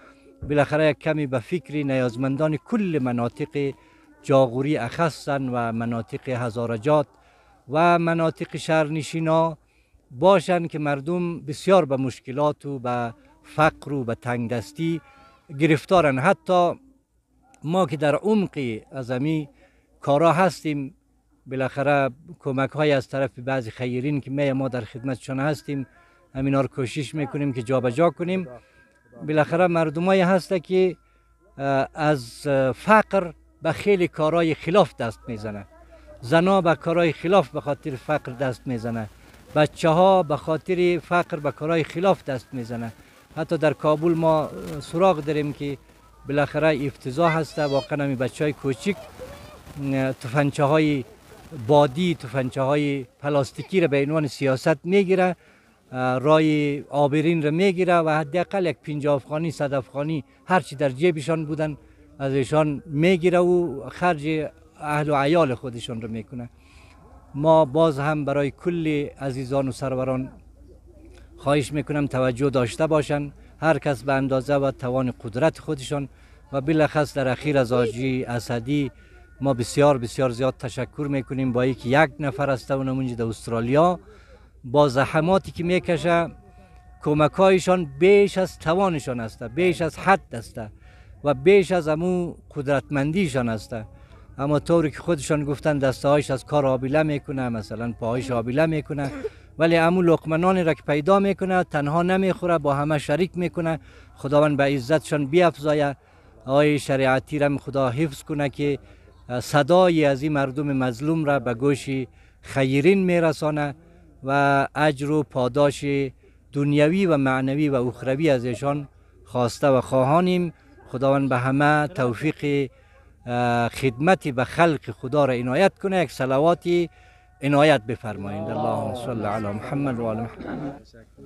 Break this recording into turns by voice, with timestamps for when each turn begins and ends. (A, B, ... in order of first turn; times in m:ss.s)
0:00.4-0:07.1 A
0:07.7-0:09.6 A
0:10.1-0:16.8 A
0:17.6-0:19.5 A
0:20.0-0:21.0 A
0:21.5-0:28.5 A
0:29.2-0:31.0 A
0:31.6-0:35.7 A
0:36.2-0:49.0 A
0:49.8-0:55.4 A
0:55.9-1:06.5 A
1:07.3-1:10.4 A
1:11.4-1:24.0 A
1:24.6-1:26.3 A
1:27.0-1:30.7 A
1:31.2-1:33.9 A
1:34.4-2:02.7 A
2:03.3-2:06.9 A
2:07.4-2:10.7 A